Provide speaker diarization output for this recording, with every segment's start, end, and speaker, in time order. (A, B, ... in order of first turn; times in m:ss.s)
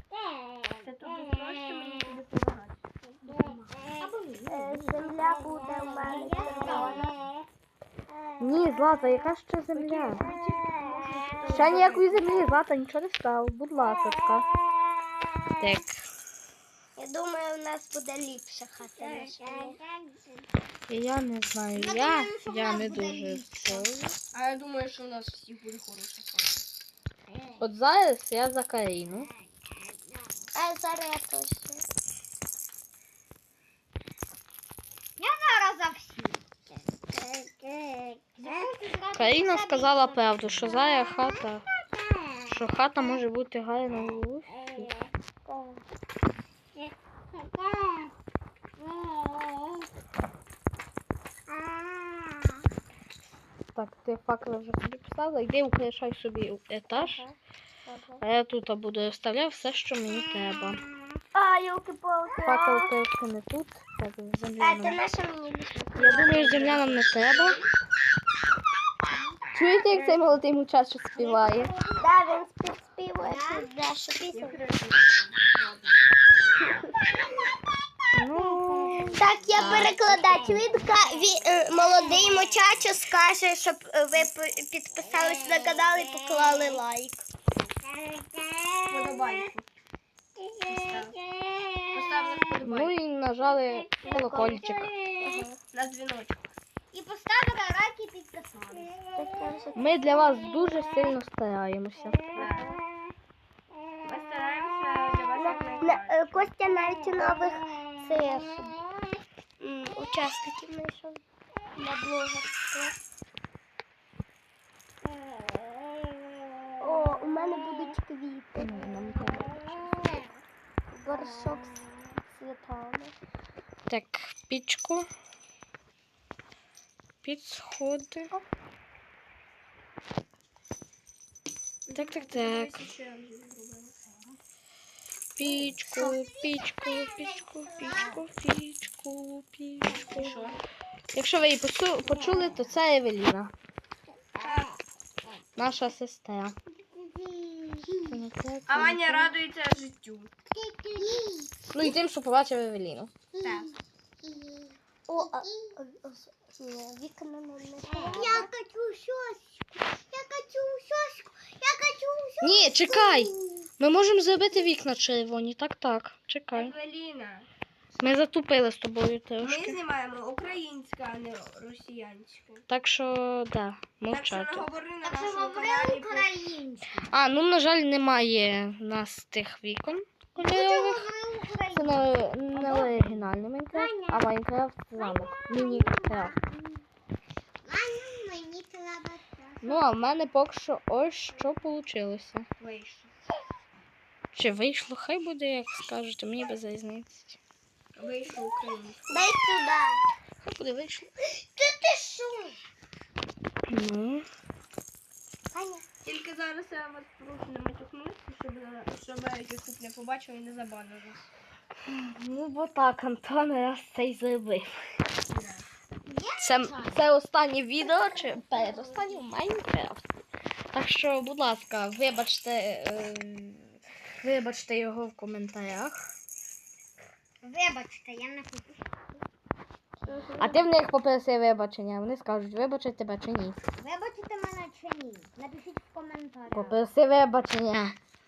0:00.8-0:03.6 A
0:03.2-0:07.3 B
0:04.5-0:07.1 C
0:06.3-0:07.1 A
0:08.4-0:10.2 D
0:09.7-0:12.4 A
0:11.5-0:14.4 D
0:15.6-0:15.9 D
0:17.0-0:19.8 C
0:19.0-0:19.5 A
0:20.9-0:24.2 D
0:21.7-0:23.9 B
0:24.3-0:26.6 A
0:27.3-0:27.6 B
0:27.6-0:29.3 D
0:30.5-0:31.8 C
0:35.2-0:36.4 B
0:37.1-0:38.5 C
0:38.4-0:42.4 B
0:39.1-0:41.6 D
0:42.4-0:44.9 D
0:45.5-0:45.8 C
0:47.3-0:48.1 B
0:48.8-0:49.8 B
0:53.7-0:57.2 D
0:56.9-0:58.2 C
0:58.2-1:00.8 D
1:01.3-1:03.0 C
1:02.4-1:05.0 D
1:04.6-1:06.7 C
1:05.9-1:07.7 A
1:06.0-1:07.6 D
1:09.5-1:11.7 D
1:09.9-1:10.4 A
1:11.1-1:12.0 B
1:12.0-1:14.6 C
1:13.2-1:13.7 B
1:14.3-1:15.6 A
1:16.6-1:16.9 C
1:18.1-1:20.5 D
1:18.3-1:22.9 B
1:19.1-1:27.2 C
1:25.6-1:25.9 B
1:26.4-1:26.8 B
1:28.4-1:28.7 B
1:28.9-1:29.6 A
1:30.6-1:31.2 A
1:31.4-1:31.9 B
1:31.9-1:33.0 A
1:32.6-1:34.9 D
1:34.0-1:35.6 C
1:35.7-1:36.5 A
1:36.9-1:39.1 B
1:39.1-1:40.4 C
1:39.8-1:42.6 D
1:42.4-1:42.7 A
1:44.0-1:46.5 A
1:45.4-1:48.7 C
1:49.6-1:51.2 C
1:51.8-1:52.9 C
1:56.8-1:59.3 C
1:58.6-1:59.8 D
2:00.9-2:01.7 C
2:02.3-2:03.1 C
2:03.9-2:05.1 D
2:07.2-2:08.3 D
2:11.9-2:14.0 A
2:11.9-2:12.8 D
2:15.4-2:20.5 D
2:15.4-2:18.2 B
2:20.1-2:20.6 A
2:21.1-2:23.5 D
2:24.4-2:24.7 A
2:25.6-2:26.6 D
2:26.9-2:28.1 B
2:28.0-2:29.3 D
2:28.7-2:30.3 A
2:30.5-2:31.9 B
2:31.7-2:33.1 D
2:33.3-2:33.7 B
2:33.4-2:33.7 A
2:34.2-2:35.7 B
2:35.1-2:38.5 C
2:37.9-2:43.6 B
2:42.4-2:46.7 D
2:46.5-2:47.5 A
2:48.0-2:49.8 D
2:49.4-2:52.6 A
2:52.7-2:54.7 D
2:54.1-2:56.3 A
2:55.0-2:57.1 B
2:57.1-3:01.1 D
3:00.4-3:04.3 B
3:01.7-3:06.3 D
3:02.6-3:02.9 A
3:04.9-3:06.8 B
3:07.6-3:09.8 B
3:09.6-3:12.5 D
3:12.6-3:13.1 A
3:14.3-3:17.4 D
3:17.9-3:19.3 A
3:19.1-3:20.0 C
3:20.4-3:21.1 D
3:21.5-3:22.6 B
3:23.6-3:24.2 D
3:25.5-3:25.8 B
3:26.0-3:31.3 A
3:31.8-3:34.8 D
3:35.3-3:35.6 A
3:36.0-3:37.0 B
3:36.4-3:40.0 D
3:37.9-3:39.3 B
3:40.7-3:46.0 D
3:47.4-3:48.8 B
3:50.0-3:50.7 C
3:50.4-3:53.6 D
3:53.8-3:56.8 B
3:56.5-3:58.0 D